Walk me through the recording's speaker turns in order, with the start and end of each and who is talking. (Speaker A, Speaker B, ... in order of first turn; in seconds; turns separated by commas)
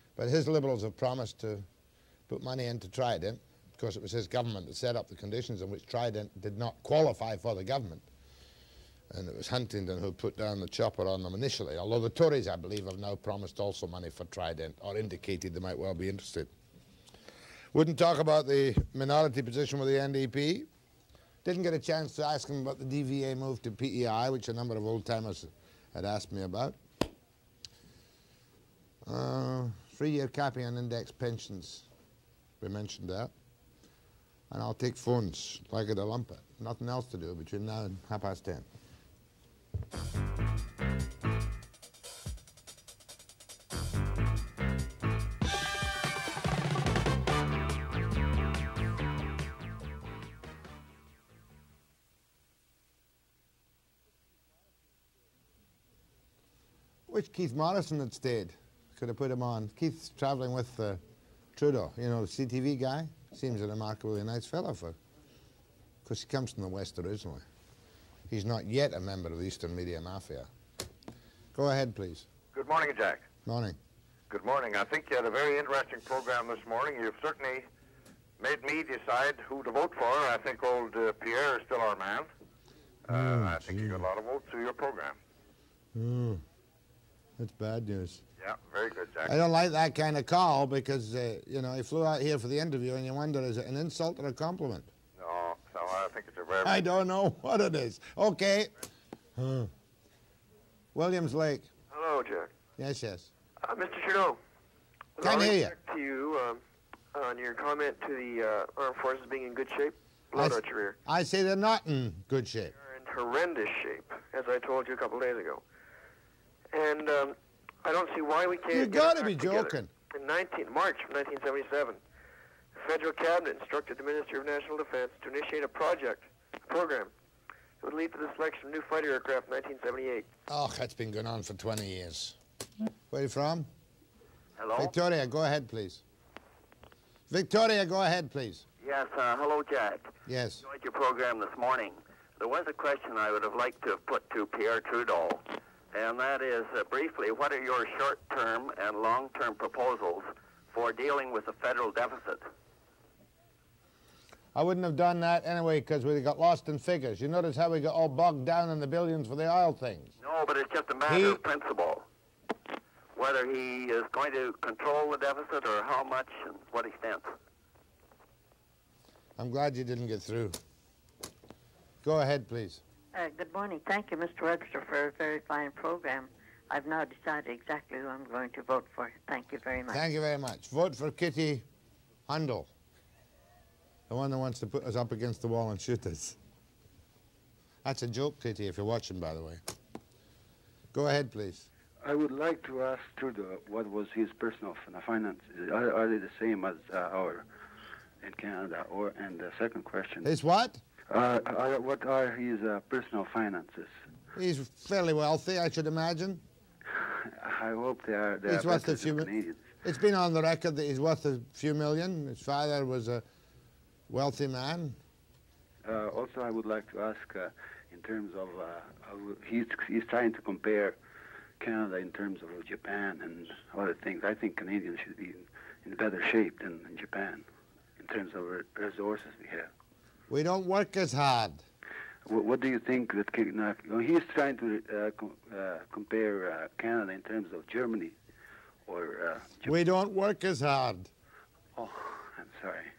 Speaker A: 0.2-1.7, Speaker A: 2.3-8.1, Speaker A: 9.1-16.5, Speaker A: 17.7-20.7, Speaker A: 21.4-26.8, Speaker A: 29.0-31.9, Speaker A: 32.6-33.3, Speaker A: 34.5-38.7, Speaker A: 57.1-61.0, Speaker A: 61.6-65.0, Speaker A: 66.0-67.5, Speaker A: 68.3-70.5, Speaker A: 71.5-72.3, Speaker B: 72.5-73.3, Speaker A: 73.5-73.8, Speaker B: 74.3-77.7, Speaker B: 78.4-82.3, Speaker B: 83.1-85.2, Speaker A: 83.1-84.0, Speaker A: 85.9-86.4, Speaker A: 87.4-88.2, Speaker B: 88.4-89.4, Speaker A: 89.2-94.9, Speaker B: 95.2-96.8, Speaker A: 96.6-98.7, Speaker A: 99.4-99.7, Speaker A: 101.0-101.7, Speaker C: 101.9-102.5, Speaker A: 102.8-103.3, Speaker C: 103.6-104.4, Speaker C: 105.2-106.6, Speaker A: 105.2-105.7, Speaker C: 107.1-111.0, Speaker A: 110.3-112.7, Speaker C: 112.8-115.6, Speaker C: 116.7-122.0, Speaker A: 118.7-119.9, Speaker C: 122.8-127.1, Speaker C: 127.8-130.3, Speaker A: 130.5-132.4, Speaker A: 133.1-133.7, Speaker D: 134.6-134.9, Speaker A: 134.8-136.0, Speaker A: 137.3-138.7, Speaker D: 138.8-140.1, Speaker A: 140.3-140.6, Speaker D: 140.6-152.4, Speaker A: 154.6-160.1, Speaker D: 160.2-162.1, Speaker A: 161.1-161.4, Speaker D: 163.2-167.3, Speaker A: 169.4-170.6, Speaker A: 172.0-172.8, Speaker E: 173.1-180.0, Speaker A: 179.9-181.7, Speaker A: 182.3-182.7, Speaker A: 184.1-186.4, Speaker A: 187.8-189.6, Speaker A: 190.9-191.7, Speaker F: 192.0-197.4, Speaker F: 198.2-200.3, Speaker A: 200.2-200.8, Speaker F: 201.1-203.9, Speaker A: 204.4-206.4, Speaker F: 206.9-209.6, Speaker A: 208.5-209.3, Speaker A: 209.8-213.2, Speaker A: 214.1-215.0, Speaker F: 215.8-221.0, Speaker F: 221.6-227.4, Speaker F: 228.0-229.7, Speaker A: 230.3-231.6, Speaker F: 232.3-238.2, Speaker F: 238.9-239.7, Speaker A: 239.7-241.1, Speaker F: 241.8-242.9